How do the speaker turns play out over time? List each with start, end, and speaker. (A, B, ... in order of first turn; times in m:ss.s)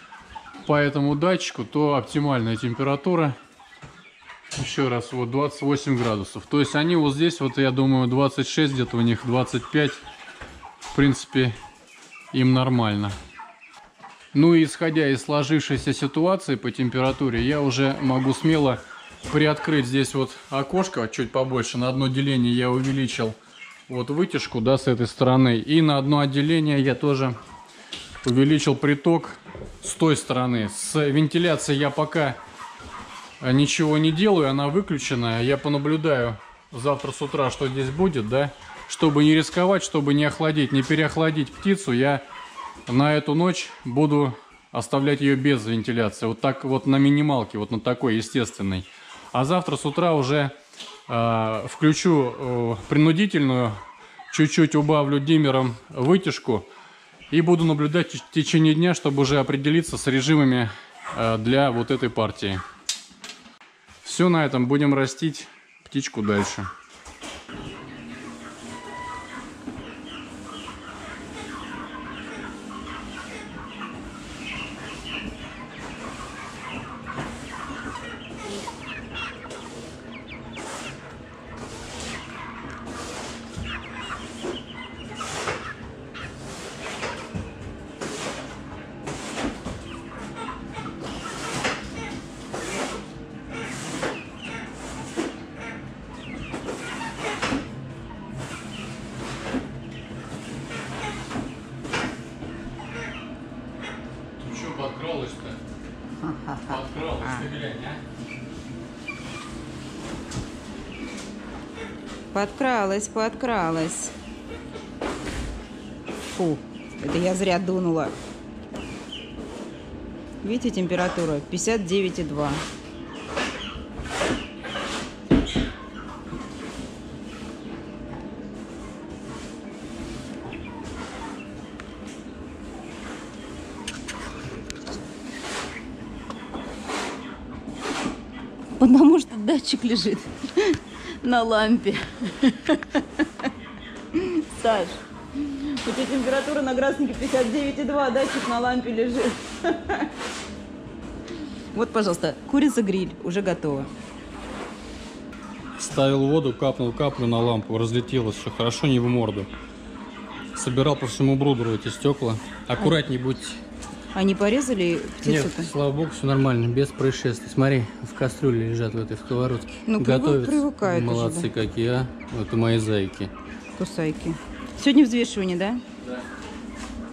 0:00.6-0:03.4 A
0:04.5-0:10.0 A
0:10.9-0:11.5 A
0:12.3-0:13.2 A
0:14.3-0:23.4 A
0:23.9-0:27.4 A
0:28.2-0:32.4 A
0:33.4-0:42.2 A
0:42.9-0:50.5 A
0:51.1-0:53.8 A
0:54.3-0:56.7 A
0:57.3-1:02.6 A
1:04.0-1:06.7 A
1:44.4-1:45.6 A
1:46.2-1:47.5 B
1:46.7-1:48.0 A
1:52.3-1:54.1 B
1:56.3-1:58.1 B
2:00.4-2:02.6 B
2:18.8-2:23.5 B
2:24.1-2:30.1 B
2:31.7-2:33.9 B
2:35.8-2:39.5 A
2:40.5-2:43.6 A
2:44.1-2:45.7 B
2:45.2-2:53.3 A
2:49.9-2:51.5 B
2:53.8-2:55.8 B